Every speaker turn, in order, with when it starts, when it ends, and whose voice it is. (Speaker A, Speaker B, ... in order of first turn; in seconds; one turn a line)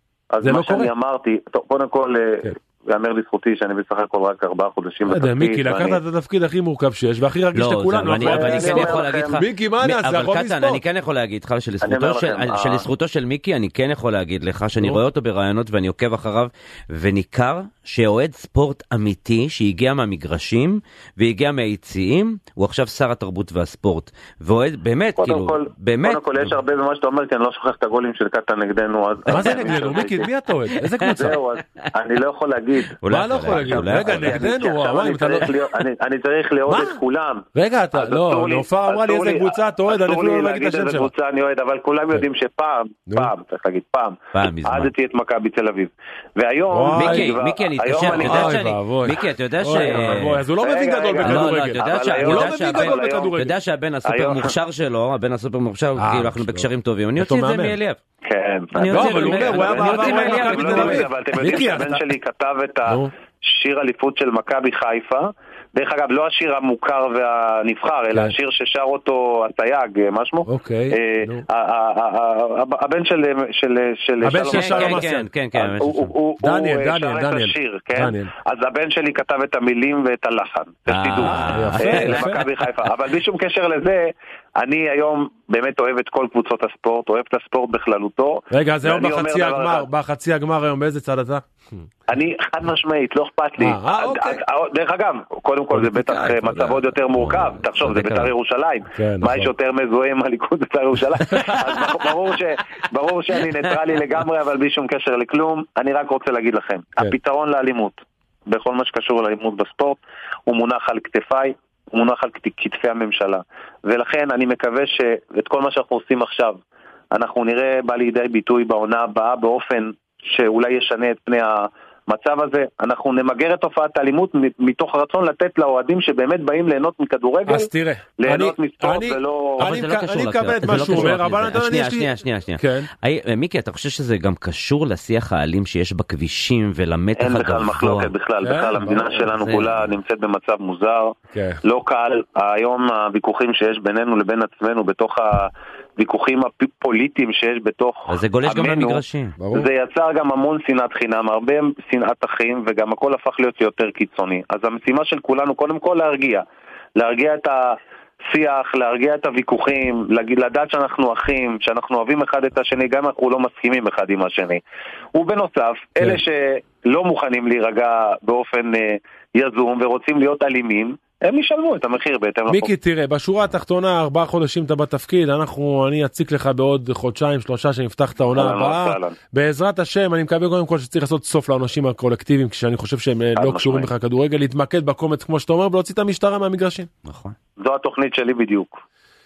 Speaker A: 0.3-6.0
Speaker B: 0.4-0.9
Speaker B: 5.1-10.8
Speaker C: 7.5-26.5
Speaker A: 8.1-9.4
Speaker A: 11.8-12.8
Speaker A: 25.2-30.2
Speaker C: 29.3-30.1
Speaker B: 29.3-31.4
Speaker C: 30.8-31.3
Speaker A: 31.1-48.6
Speaker C: 33.0-34.6
Speaker B: 33.1-35.5
Speaker B: 36.7-37.0
Speaker B: 37.5-41.1
Speaker C: 44.3-44.9
Speaker B: 46.7-47.3
Speaker C: 46.9-50.4
Speaker B: 48.0-53.5
Speaker A: 49.7-53.4
Speaker C: 51.2-58.0
Speaker A: 54.1-54.5
Speaker B: 56.0-57.8
Speaker A: 58.2-75.0
Speaker C: 58.7-61.1
Speaker B: 58.9-62.0
Speaker B: 62.9-63.1
Speaker B: 70.5-71.4
Speaker B: 74.2-75.3
Speaker C: 74.5-76.1
Speaker A: 75.5-89.8
Speaker B: 76.4-78.3
Speaker C: 80.9-82.7
Speaker B: 81.2-82.5
Speaker B: 88.5-91.8
Speaker A: 92.1-116.6
Speaker B: 93.6-94.4
Speaker B: 95.7-96.8
Speaker C: 97.2-98.3
Speaker B: 98.9-99.5
Speaker A: 117.1-127.7
Speaker B: 127.5-132.9
Speaker A: 128.2-129.6
Speaker C: 129.6-138.1
Speaker A: 130.7-131.1
Speaker A: 137.2-156.4
Speaker B: 138.4-139.2
Speaker C: 139.3-139.8
Speaker B: 141.3-141.6
Speaker C: 148.1-149.3
Speaker B: 149.4-149.7
Speaker A: 157.0-157.8
Speaker A: 158.3-164.6
Speaker A: 165.1-172.7
Speaker B: 172.5-186.9
Speaker A: 178.3-179.1
Speaker A: 183.3-183.9
Speaker C: 187.1-187.3
Speaker A: 187.6-188.8